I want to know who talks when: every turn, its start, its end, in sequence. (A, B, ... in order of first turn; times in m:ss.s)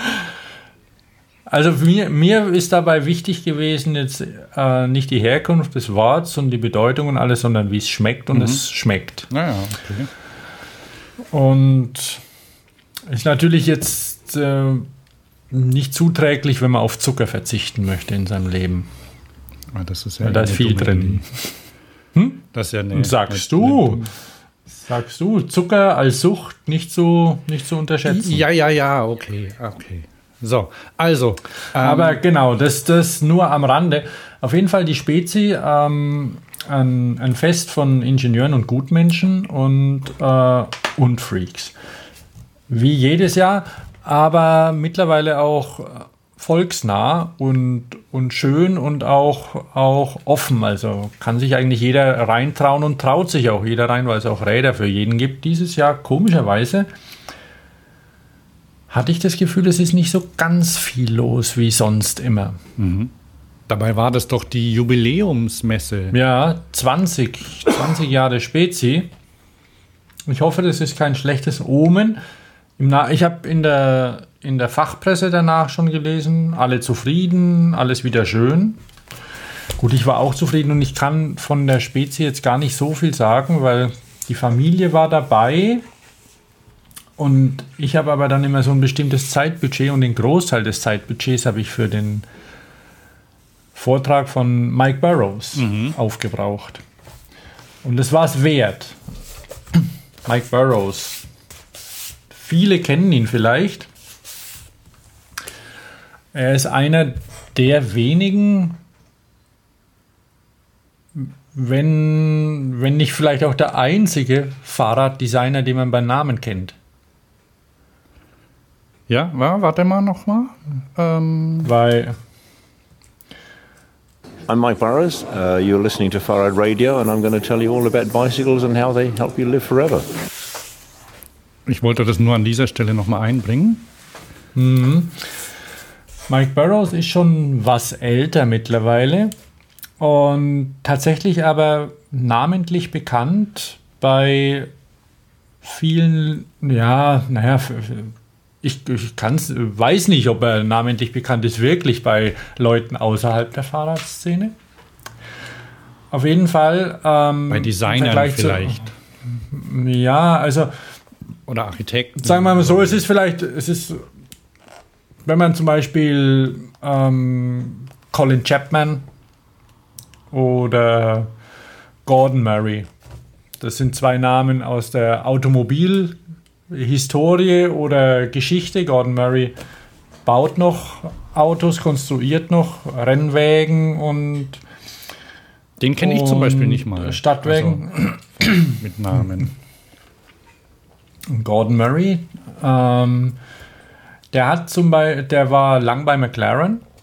0:01.5-0:09.3 A
0:08.3-0:08.6 B
0:09.3-0:10.1 B
0:11.3-0:12.2 A
0:13.1-0:14.9 A
0:15.5-0:18.9 A
0:19.7-0:21.3 B
0:20.2-0:21.5 A
0:22.1-0:24.1 A
0:22.5-0:24.1 B
0:24.7-0:28.4 A
0:28.0-0:32.2 B
0:31.8-0:41.8 A
0:42.7-0:56.9 A
0:58.9-1:02.6 A
1:02.8-1:03.1 B
1:03.7-1:06.2 B
1:06.1-1:09.1 A
1:10.3-1:12.2 A
1:12.8-1:18.8 A
1:19.8-1:25.8 A
1:27.2-1:32.2 A
1:33.7-1:36.8 A
1:35.6-1:36.0 B
1:37.8-1:39.0 A
1:39.7-1:41.2 A
1:42.3-1:43.9 A
1:46.3-1:48.8 A
1:51.1-1:56.8 A
1:59.1-2:01.7 B
2:01.6-2:02.2 A
2:04.5-2:10.1 C
2:11.7-2:13.8 B
2:14.5-2:15.3 A
2:16.3-2:19.3 A
2:20.0-2:24.7 A
2:25.6-2:34.6 A
2:36.1-2:40.8 A
2:37.5-2:38.8 B
2:41.5-2:43.0 B
2:42.2-2:44.0 A
2:45.2-2:49.0 A
2:50.3-2:51.3 A
2:52.0-2:52.9 A
2:53.6-2:56.2 A
2:56.7-2:59.6 A
3:00.2-3:04.6 A
3:05.8-3:07.9 B
3:06.0-3:08.8 A
3:08.5-3:09.5 B
3:11.3-3:13.4 A
3:14.3-3:16.8 A